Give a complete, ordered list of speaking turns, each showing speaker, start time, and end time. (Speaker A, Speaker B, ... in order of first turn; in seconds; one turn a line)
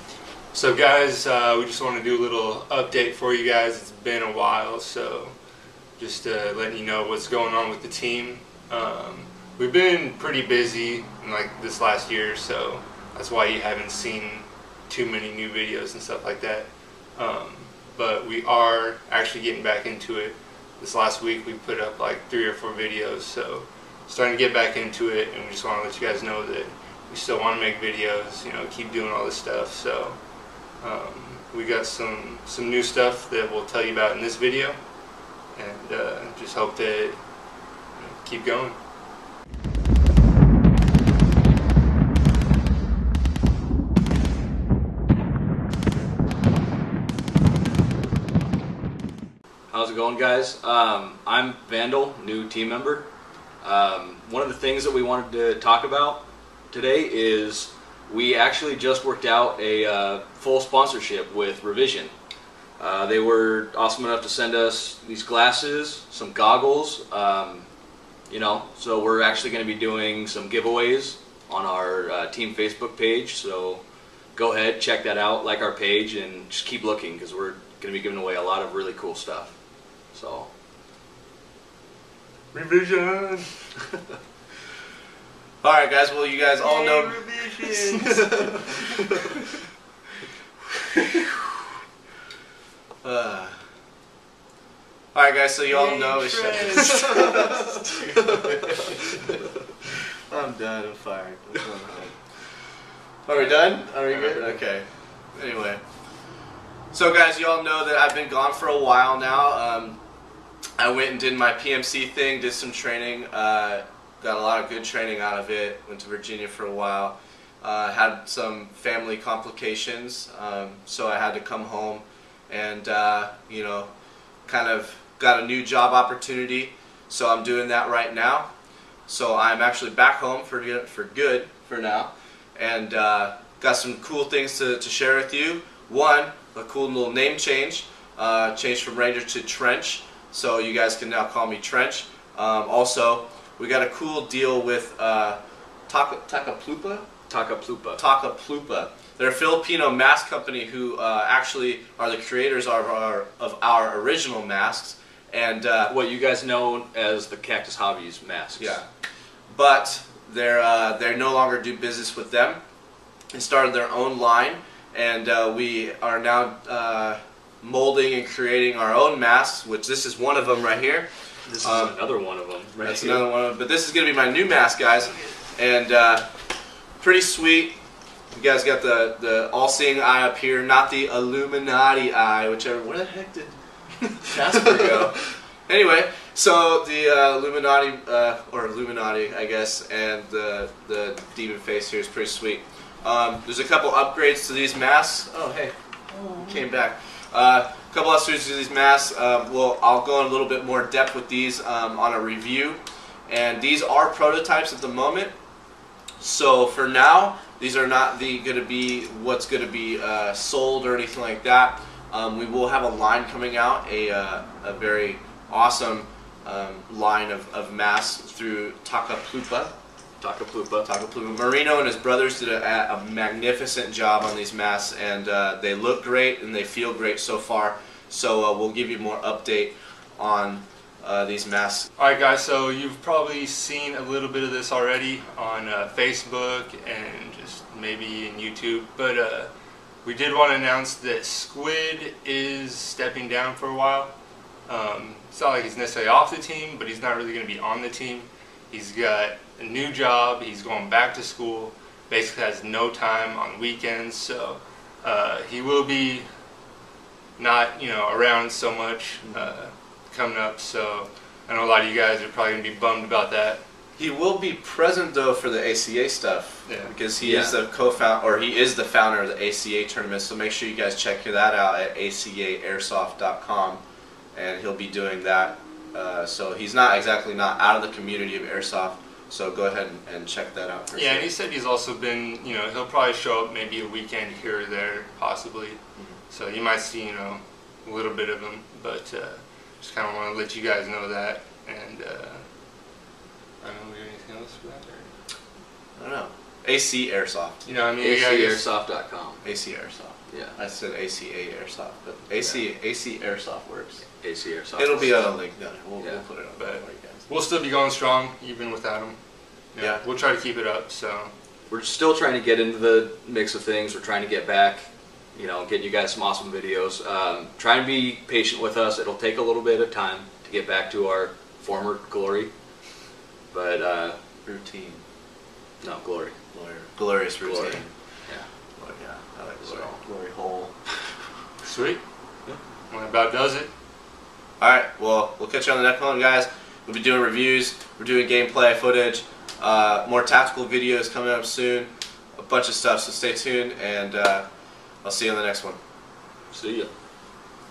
Speaker A: 0.5-5.3
Speaker A: 6.0-30.2
Speaker A: 30.8-34.8
Speaker A: 35.5-37.2
Speaker A: 38.0-38.8
Speaker B: 49.7-53.1
Speaker B: 53.6-62.1
Speaker B: 62.8-67.7
Speaker B: 68.3-73.8
Speaker B: 74.3-79.5
Speaker B: 80.1-80.5
Speaker A: 82.5-83.5
Speaker C: 85.6-88.8
Speaker A: 86.6-88.4
Speaker C: 93.0-93.6
Speaker C: 95.1-99.4
Speaker A: 95.7-97.8
Speaker C: 100.3-102.2
Speaker C: 103.2-105.8
Speaker C: 106.9-110.0
Speaker C: 110.8-123.9
Speaker C: 124.5-128.5
Speaker C: 129.1-147.1
Speaker B: 147.3-148.0
Speaker C: 148.0-155.9
Speaker B: 155.8-158.8
Speaker C: 158.6-158.9
Speaker C: 159.5-162.6
Speaker C: 163.3-171.1
Speaker B: 171.5-173.3
Speaker C: 171.6-172.0
Speaker C: 172.8-176.3
Speaker C: 177.0-177.8
Speaker C: 178.3-183.6
Speaker C: 184.2-205.3
Speaker C: 206.2-219.7
Speaker B: 220.2-220.9
Speaker C: 220.8-231.9
Speaker A: 232.0-239.5
Speaker A: 240.0-244.1
Speaker A: 244.7-256.3
Speaker A: 257.4-263.6
Speaker C: 263.9-273.8
Speaker A: 266.6-266.9
Speaker B: 267.2-267.6
Speaker C: 274.3-281.3
Speaker A: 280.9-292.4
Speaker A: 293.6-295.1
Speaker C: 296.0-297.6
Speaker A: 297.6-298.7
Speaker B: 298.0-299.5
Speaker C: 299.4-304.1
Speaker B: 300.3-300.6
Speaker B: 304.1-305.3
Speaker C: 304.8-307.3
Speaker A: 306.6-309.2
Speaker A: 309.7-311.3
Speaker C: 309.8-310.0
Speaker B: 311.7-322.5
Speaker B: 323.5-324.2
Speaker C: 324.4-325.0
Speaker B: 325.8-326.4
Speaker C: 326.5-327.9
Speaker B: 327.4-328.5
Speaker C: 328.8-330.7
Speaker B: 329.6-330.0
Speaker A: 331.6-332.0
Speaker A: 332.9-333.7
Speaker C: 334.6-344.4
Speaker C: 345.0-345.8
Speaker B: 346.5-346.9